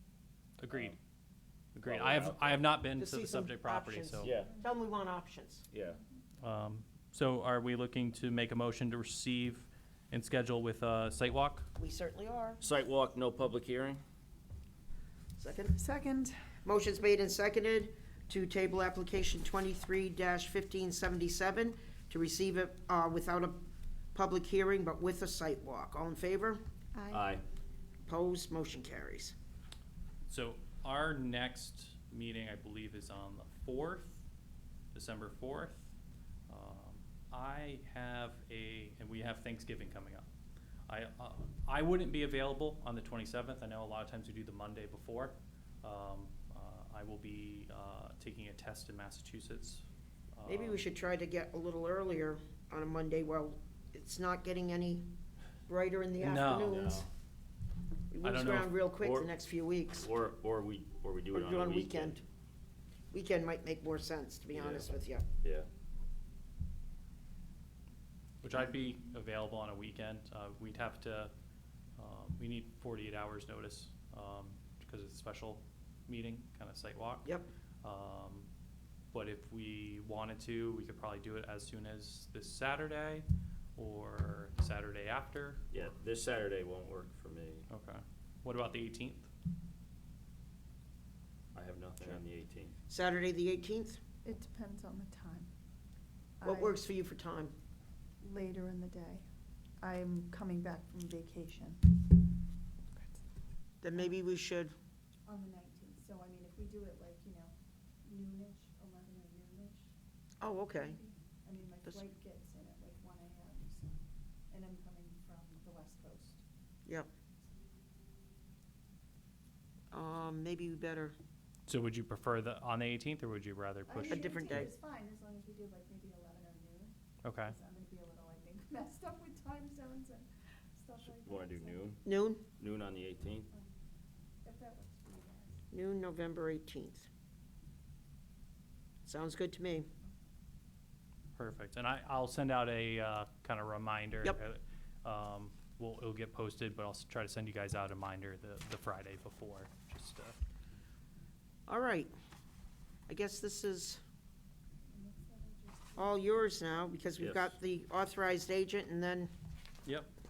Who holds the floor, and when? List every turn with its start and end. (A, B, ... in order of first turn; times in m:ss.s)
0:00.6-0:01.0 A
0:00.7-0:01.0 B
0:01.8-0:04.3 A
0:01.8-0:02.7 B
0:03.0-0:05.7 C
0:04.2-0:04.6 B
0:05.7-0:06.0 B
0:06.4-0:11.7 A
0:11.8-0:12.6 C
0:12.6-0:14.0 B
0:15.4-0:15.8 C
0:15.7-0:16.5 D
0:16.6-0:23.6 C
0:24.1-0:26.6 C
0:26.9-0:27.3 D
0:27.1-0:27.4 B
0:28.0-0:29.3 C
0:30.3-0:34.3 A
0:34.9-0:36.0 A
0:36.5-0:40.3 A
0:40.9-0:50.8 A
0:50.5-0:55.1 C
0:55.7-0:57.1 C
0:56.2-0:56.8 A
0:56.7-0:57.1 B
0:58.1-1:00.1 C
0:58.2-0:58.7 A
0:59.0-0:59.3 B
0:59.9-1:02.2 B
1:01.3-1:02.2 C
1:03.1-1:05.3 C
1:04.5-1:04.9 B
1:05.4-1:05.7 B
1:08.4-1:11.3 A
1:12.0-1:18.5 A
1:19.1-1:25.7 A
1:25.7-1:27.7 B
1:27.7-1:29.3 A
1:31.6-1:32.7 B
1:32.9-1:34.0 C
1:34.2-1:35.5 D
1:36.4-1:36.8 D
1:36.4-1:37.5 C
1:38.2-1:39.3 D
1:39.8-1:42.0 D
1:43.8-1:44.7 C
1:45.3-1:50.0 D
1:50.4-1:51.0 C
1:50.8-1:53.9 D
1:54.5-1:56.4 D
1:59.9-2:01.2 C
2:01.7-2:04.7 A
2:03.9-2:11.9 D
2:04.1-2:04.7 C
2:07.2-2:07.6 A
2:11.0-2:13.5 B
2:12.0-2:12.4 C
2:13.5-2:13.8 D
2:14.4-2:15.6 D
2:15.7-2:17.1 C
2:19.1-2:19.9 C
2:21.4-2:30.4 A
2:31.7-2:32.1 C
2:33.1-2:34.0 C
2:34.9-2:36.8 D
2:36.0-2:39.3 C
2:37.2-2:37.5 B
2:39.8-2:40.1 A